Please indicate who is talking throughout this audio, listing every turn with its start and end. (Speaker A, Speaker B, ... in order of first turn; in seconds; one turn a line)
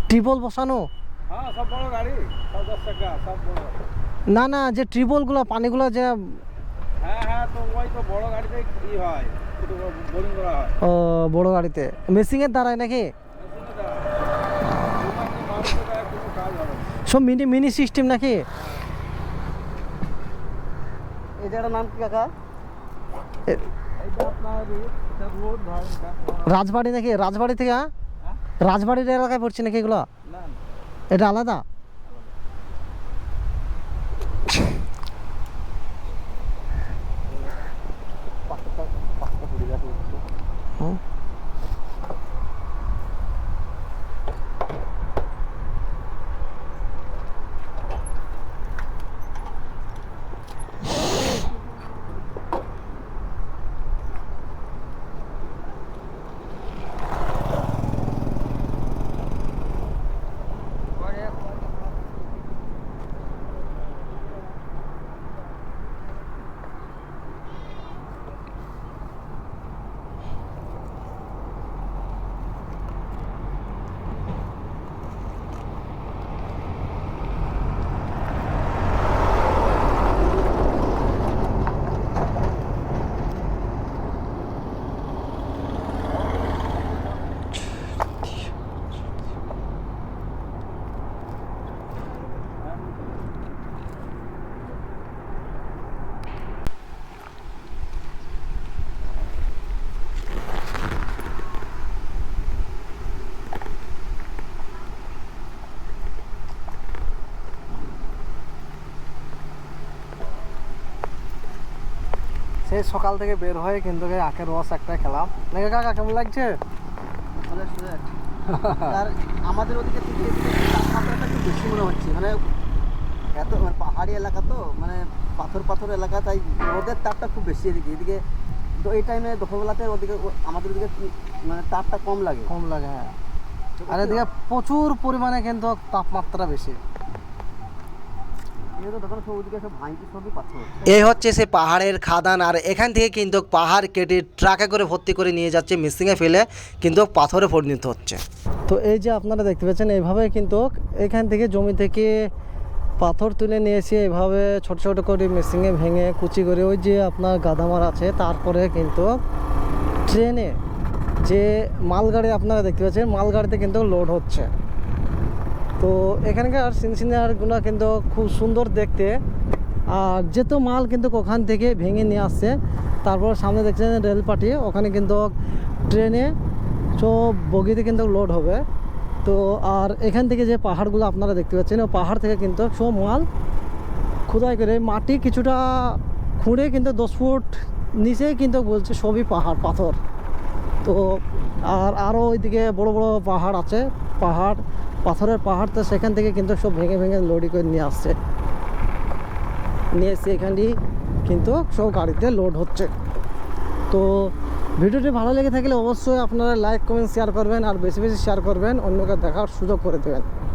Speaker A: 0.1-0.9
Speaker B: 1.3-3.8
Speaker A: 4.3-6.4
Speaker B: 7.0-10.8
Speaker A: 10.8-13.1
Speaker B: 13.3-14.1
Speaker B: 14.9-17.0
Speaker A: 17.1-18.4
Speaker C: 21.4-22.3
Speaker B: 24.0-26.5
Speaker A: 26.4-27.9
Speaker A: 28.6-30.1
Speaker B: 30.2-30.6
Speaker A: 31.1-31.6
Speaker C: 38.5-40.3
Speaker B: 86.1-87.3
Speaker A: 112.7-116.6
Speaker C: 117.4-118.1
Speaker C: 118.8-122.5
Speaker C: 123.3-128.2
Speaker C: 128.8-132.5
Speaker A: 132.5-133.1
Speaker C: 133.8-134.2
Speaker A: 133.9-136.8
Speaker C: 138.8-140.8
Speaker A: 140.8-152.1
Speaker A: 153.0-159.1
Speaker A: 160.1-160.6
Speaker A: 161.2-164.5
Speaker A: 165.8-169.1
Speaker A: 169.9-172.5
Speaker A: 173.0-175.3
Speaker A: 175.9-176.3
Speaker A: 177.0-178.6
Speaker A: 179.2-183.2
Speaker A: 184.3-190.0
Speaker A: 190.8-198.2
Speaker A: 199.9-200.7
Speaker A: 201.3-202.9
Speaker A: 203.9-210.2